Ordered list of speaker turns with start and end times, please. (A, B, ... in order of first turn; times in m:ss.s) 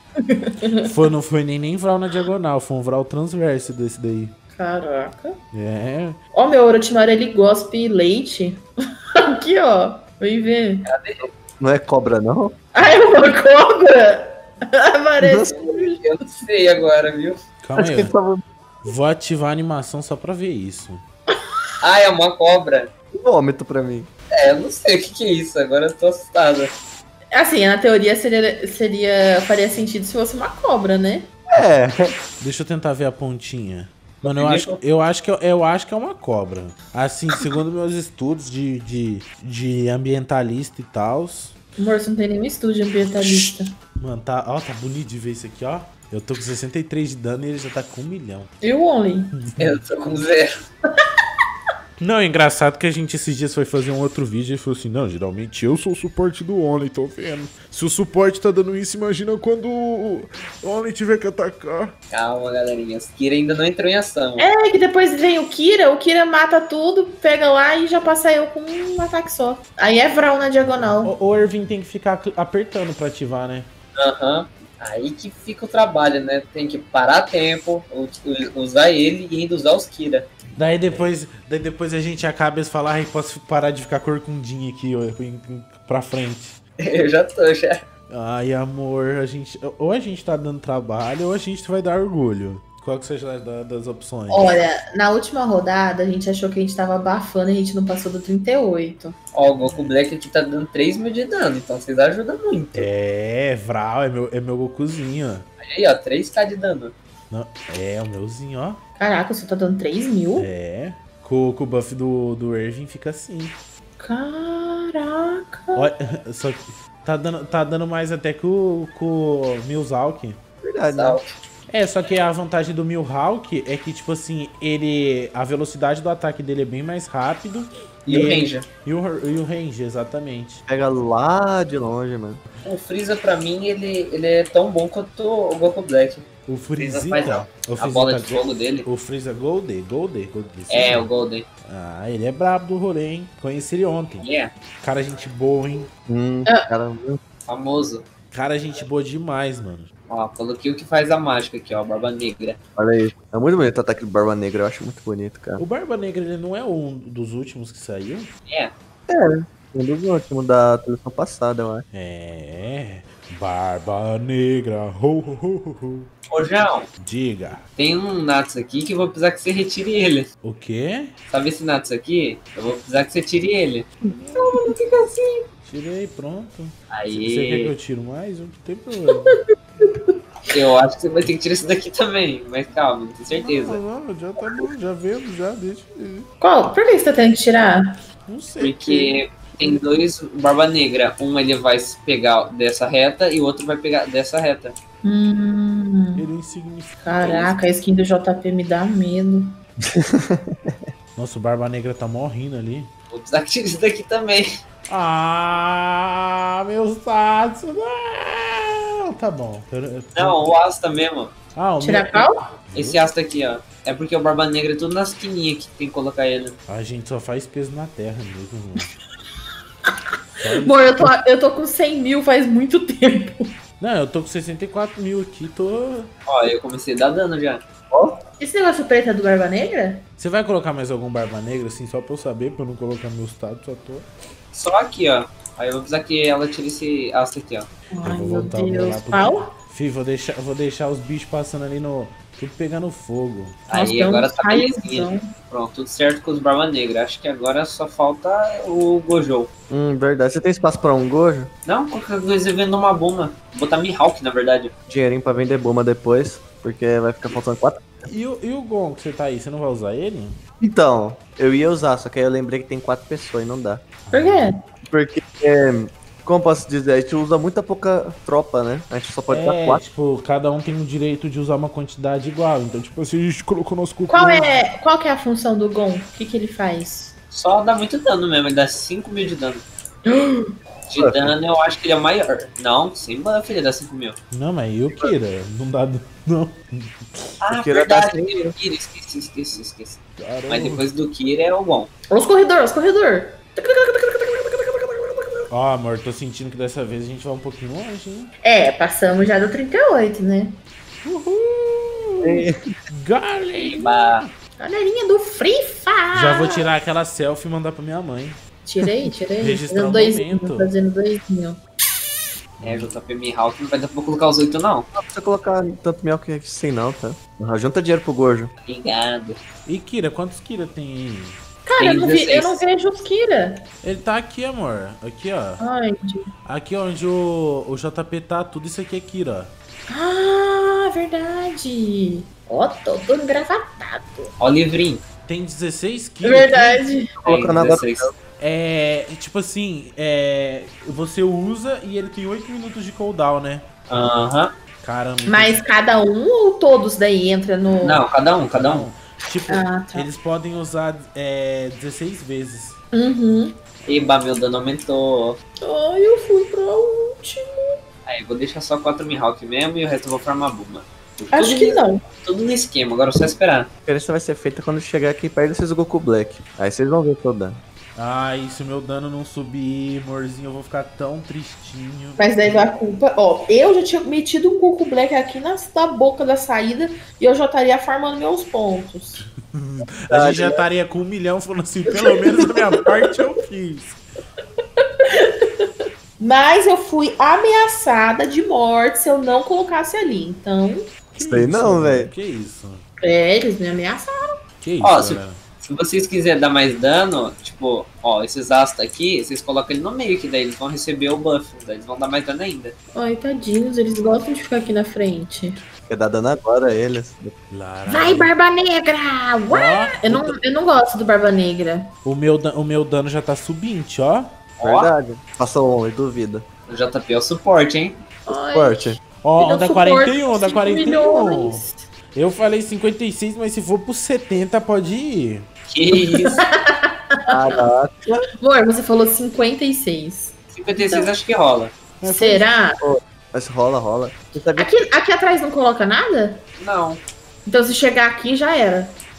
0:00.2-0:00.9 A
0:00.8-0:04.3 B
0:04.5-0:05.4 A
0:05.5-0:06.2 B
0:06.3-0:10.9 A
0:10.8-0:11.3 C
0:11.2-0:12.6 D
0:12.7-0:16.0 A
0:15.2-0:15.7 D
0:15.7-0:17.4 C
0:17.6-0:18.1 B
0:17.8-0:18.4 D
0:18.8-0:21.0 B
0:21.8-0:22.9 C
0:23.1-0:24.1 D
0:24.3-0:26.7 C
0:27.3-0:31.3 A
0:31.5-0:32.1 D
0:32.4-0:41.5 B
0:34.2-0:34.8 C
0:41.8-0:43.7 A
0:43.2-0:48.5 B
0:48.6-0:49.3 A
0:49.3-0:49.8 B
0:49.6-0:50.5 C
0:52.0-1:01.9 B
1:02.1-1:04.5 C
1:04.4-1:11.1 A
1:11.0-1:13.7 B
1:14.0-1:20.3 C
1:20.5-1:26.6 B
1:26.8-1:27.8 C
1:28.1-1:34.6 B
1:34.3-1:39.2 A
1:39.3-1:42.9 C
1:39.5-1:39.9 B
1:42.7-1:45.5 B
1:45.6-1:46.9 C
1:47.3-1:48.8 B
1:49.0-1:50.5 A
1:50.4-1:53.6 B
1:54.0-1:55.9 A
1:55.7-2:00.4 B
2:00.6-2:01.2 D
2:00.9-2:01.3 C
2:01.7-2:10.6 B
2:08.1-2:08.7 C
2:10.7-2:12.4 D
2:12.6-2:16.3 C
2:16.5-2:21.1 B
2:16.8-2:18.9 C
2:20.7-2:21.5 C
2:21.6-2:24.2 B
2:24.2-2:24.5 C
2:24.8-2:25.9 B
2:26.1-2:27.2 D
2:27.5-2:28.0 C
2:28.3-2:29.9 B
2:30.1-2:32.6 C
2:32.8-2:35.6 D
2:35.6-2:38.3 B
2:39.1-2:41.8 D
2:41.9-2:46.1 B
2:46.3-2:46.9 C
2:47.0-2:47.6 B
2:47.8-2:50.3 C
2:50.4-2:51.1 B
2:51.3-2:53.9 C
2:54.1-2:54.6 B
2:54.3-2:55.4 A
2:55.6-2:59.4 B
2:56.9-2:57.7 C
2:59.2-3:00.1 A
3:00.5-3:03.8 C
3:03.3-3:06.3 B
3:06.4-3:08.0 A
3:08.3-3:09.2 B
3:08.6-3:14.7 C
3:15.0-3:16.2 A
3:16.2-3:17.6 B
3:17.0-3:19.5 A
3:19.8-3:20.9 D
3:21.2-3:22.9 B
3:23.1-3:24.5 C
3:24.9-3:30.4 B
3:30.2-3:31.3 C
3:31.5-3:33.0 B
3:31.8-3:32.5 A
3:32.7-3:36.6 C
3:36.7-3:38.9 B
3:40.4-3:41.1 B
3:40.5-3:43.5 A
3:43.8-3:46.1 B
3:46.3-3:47.6 C
3:47.9-3:48.2 D
3:48.4-3:50.0 A
3:50.2-3:54.1 B
3:54.5-3:57.7 C
3:57.9-3:59.5 A
3:58.0-4:03.6 B
4:03.7-4:09.5 C
4:03.7-4:05.3 A
4:09.7-4:11.5 D
4:11.6-4:14.7 C
4:14.9-4:18.1 D
4:18.1-4:20.4 B
4:20.6-4:23.8 D
4:24.0-4:24.5 B
4:24.1-4:24.6 A
4:24.8-4:29.8 D
4:29.3-4:34.6 B
4:34.1-4:37.1 A
4:37.3-4:39.6 C
4:40.0-4:40.5 A
4:40.9-4:44.2 C
4:41.0-4:41.3 D
4:44.3-4:47.3 B
4:47.4-4:51.9 C
4:47.5-4:48.5 D
4:50.2-4:50.8 B
4:52.1-4:55.4 A
4:55.5-4:58.3 B
4:58.4-5:00.6 A
5:01.0-5:04.3 B
5:02.2-5:02.5 D
5:03.6-5:04.2 C
5:04.6-5:06.6 A
5:06.1-5:08.4 B
5:08.6-5:11.6 A
5:09.4-5:10.7 B
5:12.6-5:12.9 B
5:12.6-5:14.9 C
5:14.9-5:18.5 D
5:18.6-5:19.4 C
5:19.6-5:21.4 B
5:21.6-5:23.6 A
5:21.8-5:22.6 C
5:23.8-5:25.6 B
5:25.6-5:26.3 A
5:26.4-5:29.5 B
5:29.9-5:34.3 A
5:34.4-5:35.0 C
5:35.3-5:36.8 B
5:36.2-5:37.1 A
5:37.2-5:38.1 D
5:37.2-5:38.1 C
5:38.4-5:43.6 B
5:43.9-5:44.5 C
5:44.8-5:45.6 B
5:45.3-5:48.0 A
5:47.8-5:48.8 C
5:48.4-5:52.8 B
5:49.5-5:50.1 A
5:52.9-5:53.6 A
5:53.9-5:55.4 C
5:55.6-5:57.8 A
5:58.0-6:03.7 C
6:01.3-6:02.0 A
6:03.8-6:07.6 D
6:08.0-6:12.3 B
6:12.2-6:19.2 A
6:19.2-6:24.0 B
6:20.1-6:20.6 D
6:21.9-6:23.0 A
6:24.8-6:30.9 A
6:31.1-6:32.8 B
6:31.2-6:32.1 D
6:33.0-6:34.3 A
6:34.6-6:35.4 B
6:34.8-6:42.7 C
6:42.9-6:45.6 A
6:45.9-6:47.3 D
6:47.5-6:48.3 B
6:47.9-6:51.9 A
6:49.5-6:50.4 B
6:52.0-6:54.3 B
6:54.6-6:54.9 C
6:54.6-6:56.4 D
6:56.7-6:58.0 C
6:58.3-7:01.9 A
6:58.5-6:59.0 D
6:59.2-7:05.5 B
7:05.7-7:06.4 C
7:05.9-7:07.3 A
7:07.3-7:08.3 D
7:08.4-7:11.1 A
7:10.5-7:11.7 C
7:12.0-7:12.5 B
7:12.0-7:12.8 A
7:12.8-7:14.7 D
7:14.6-7:16.4 A
7:16.6-7:17.0 C
7:17.4-7:18.9 A